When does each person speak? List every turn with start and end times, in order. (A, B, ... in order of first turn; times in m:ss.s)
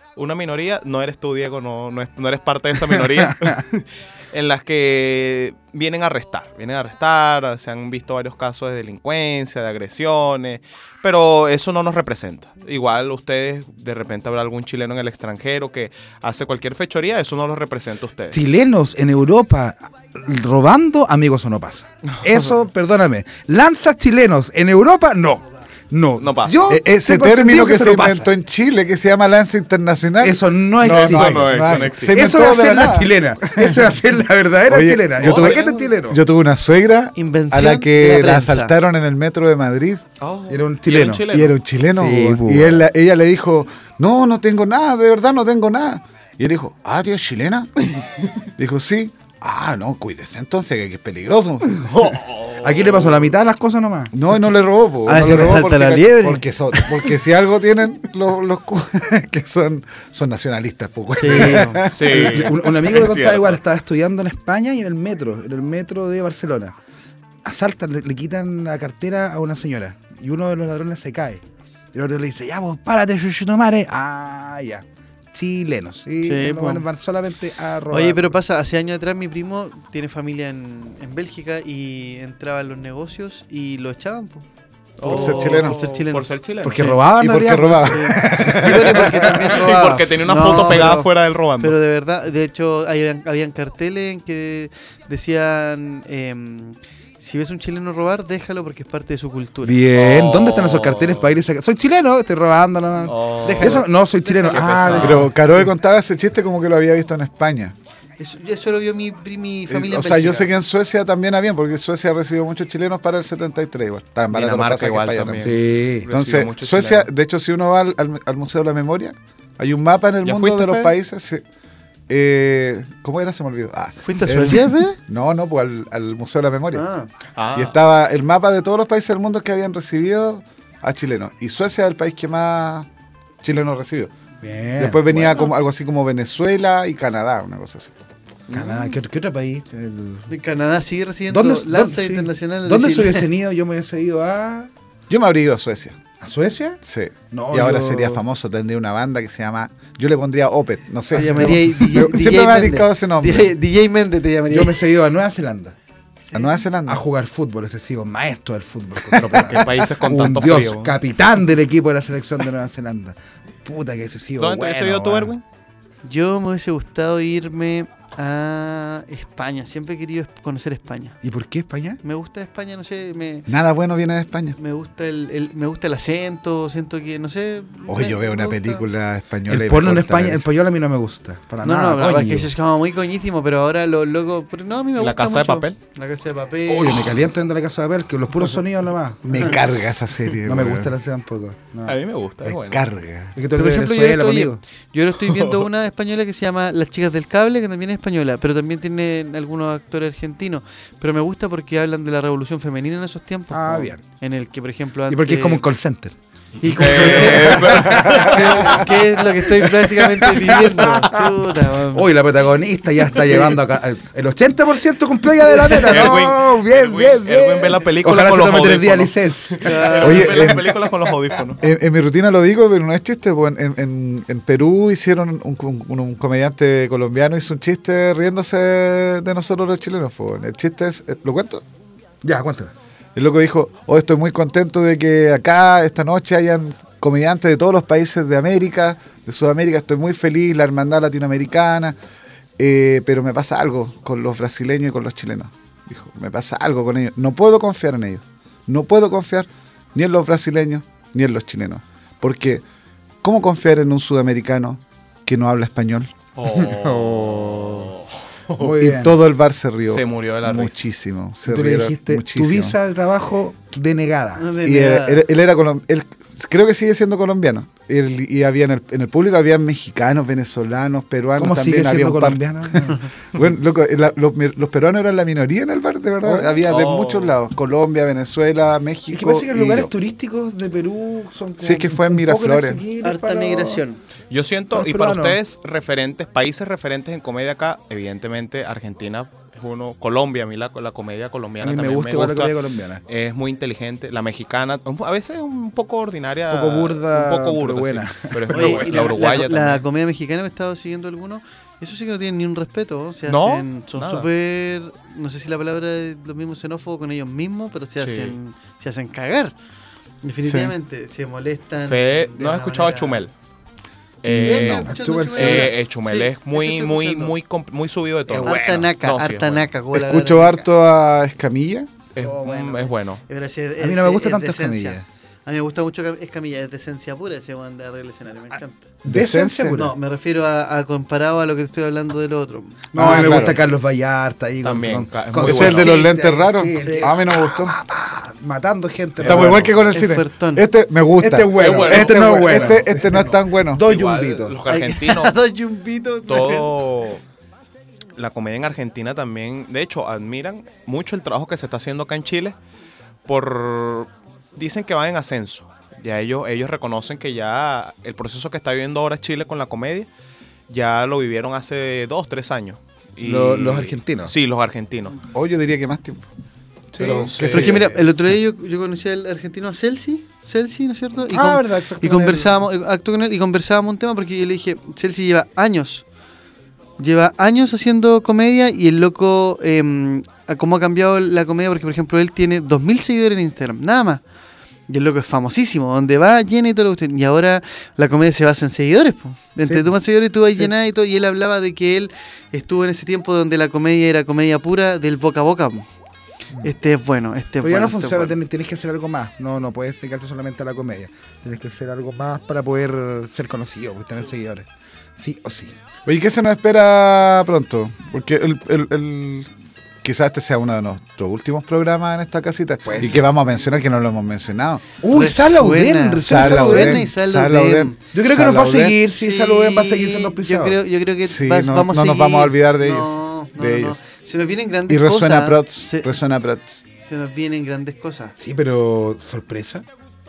0:00.2-0:18.4 A
0:03.2-0:03.5 B
0:18.3-0:28.3 B
0:26.2-0:26.6 A
0:26.7-0:33.9 C
0:30.2-0:36.2 B
0:30.8-0:32.5 A
0:34.7-0:40.0 C
0:35.2-0:35.9 A
0:37.2-0:38.7 D
0:40.2-0:41.5 A
0:40.5-0:41.3 B
0:41.3-0:47.7 C
0:41.9-0:42.8 B
0:47.8-0:48.3 A
0:48.6-0:51.8 C
0:51.6-0:53.4 A
0:52.6-0:54.1 B
0:54.1-1:02.5 C
0:55.0-0:56.4 D
0:55.1-0:55.6 B
1:01.2-1:01.8 D
1:01.2-1:03.6 A
1:02.1-1:06.7 B
1:07.4-1:11.4 B
1:11.9-1:18.4 B
1:16.2-1:16.8 D
1:17.9-1:24.4 D
1:25.0-1:27.1 A
1:25.0-1:25.8 C
1:25.0-1:26.3 D
1:26.6-1:29.7 B
1:26.9-1:29.2 C
1:27.9-1:39.8 D
1:29.2-1:31.8 A
1:39.6-1:45.7 B
1:39.9-1:41.4 A
1:43.0-1:43.9 A
1:43.4-1:45.1 D
1:44.4-1:45.3 A
1:44.9-1:47.7 C
1:48.2-1:50.5 D
1:49.7-2:01.4 C
1:54.3-1:57.1 A
1:55.4-1:56.1 B
2:00.2-2:00.9 A
2:02.1-2:06.8 C
2:04.0-2:05.0 D
2:06.7-2:07.1 D
2:07.4-2:07.8 A
2:07.5-2:12.9 C
2:13.4-2:14.1 C
2:14.4-2:15.4 B
2:14.8-2:17.9 C
2:18.5-2:19.0 A
2:18.5-2:20.3 B
2:20.3-2:23.3 D
2:21.3-2:24.7 B
2:25.1-2:26.0 C
2:26.2-2:26.8 B
2:26.8-2:33.6 C
2:27.3-2:28.2 B
2:31.1-2:31.7 B
2:31.1-2:34.9 D
2:34.5-2:35.8 B
2:36.3-2:37.0 C
2:36.8-2:45.3 B
2:39.1-2:39.8 C
2:39.2-2:41.0 A
2:44.4-2:45.4 A
2:46.0-2:51.2 D
2:51.2-2:52.0 B
2:52.0-2:53.5 D
2:53.5-2:54.6 C
2:54.6-2:58.8 D
2:57.9-3:00.5 C
2:59.5-3:02.5 B
3:01.6-3:07.1 D
3:05.0-3:05.8 A
3:06.6-3:09.6 B
3:09.2-3:10.9 C
3:10.4-3:12.0 B
3:11.8-3:12.8 A
3:12.4-3:13.4 C
3:13.4-3:14.6 B
3:13.5-3:25.6 D
3:15.2-3:15.7 A
3:23.5-3:24.0 B
3:25.1-3:39.7 B
3:26.6-3:32.1 D
3:26.7-3:29.0 A
3:33.2-3:33.6 D
3:35.5-3:41.6 A
3:39.6-3:40.5 D
3:40.0-3:40.8 C
3:41.6-3:51.6 C
3:52.2-3:52.7 B
3:53.1-4:02.0 C
4:02.6-4:12.6 C
4:13.2-4:16.1 C
4:16.4-4:18.7 A
4:16.5-4:17.9 B
4:18.6-4:19.2 B
4:18.7-4:22.8 C
4:19.8-4:20.8 A
4:21.4-4:24.5 B
4:24.4-4:25.3 D
4:24.6-4:39.9 C
4:31.4-4:33.1 B
4:36.2-4:36.6 B
4:36.6-4:37.3 A
4:39.1-4:43.8 B
4:41.6-4:42.8 C
4:43.0-4:44.0 D
4:44.3-4:52.5 A
4:44.7-4:45.4 B
4:51.6-4:53.0 B
4:53.1-4:59.8 A
4:56.5-4:59.1 B
4:58.5-5:09.5 D
5:03.2-5:04.3 A
5:08.0-5:08.4 A
5:10.2-5:13.2 D
5:11.8-5:13.3 A
5:14.2-5:19.7 A
5:14.3-5:14.9 C
5:14.3-5:17.3 D
5:14.4-5:15.8 B
5:18.3-5:18.9 B
5:18.4-5:20.7 D
5:19.9-5:21.9 C
5:22.1-5:23.2 A
5:22.2-5:22.6 B
5:22.2-5:28.9 D
5:23.8-5:25.0 B
5:29.0-5:29.9 B
5:29.0-5:29.8 C
5:29.7-5:33.6 D
5:32.9-5:39.9 B
5:32.9-5:33.6 C
5:33.1-5:33.6 A
5:34.6-5:36.0 A
5:35.4-5:37.8 C
5:35.9-5:37.2 D
5:39.2-5:39.8 A
5:39.2-5:43.8 C
5:39.9-5:40.6 D
5:41.2-5:44.6 B
5:41.5-5:45.3 A
5:44.6-5:46.8 D
5:46.3-5:47.2 A
5:48.2-5:52.5 A
5:53.2-6:00.1 A
6:00.7-6:05.2 A
6:03.2-6:04.3 B
6:05.3-6:06.2 C
6:06.9-6:07.7 B
6:07.0-6:07.9 C
6:07.2-6:08.0 A
6:07.5-6:16.0 D
6:11.3-6:12.6 B
6:17.0-6:24.2 D
6:24.9-6:35.9 D
6:29.6-6:29.9 B
6:36.6-6:38.4 D
6:37.6-6:45.7 B
6:46.0-6:49.5 C
6:50.0-6:54.8 C
6:52.8-6:53.2 B
6:55.0-6:57.1 B
6:55.1-6:58.0 D
6:56.2-6:59.0 C
6:58.1-7:00.8 B
6:59.1-7:06.2 D
7:01.2-7:04.0 C
7:04.9-7:06.8 C
7:07.0-7:08.3 D
7:08.4-7:09.8 B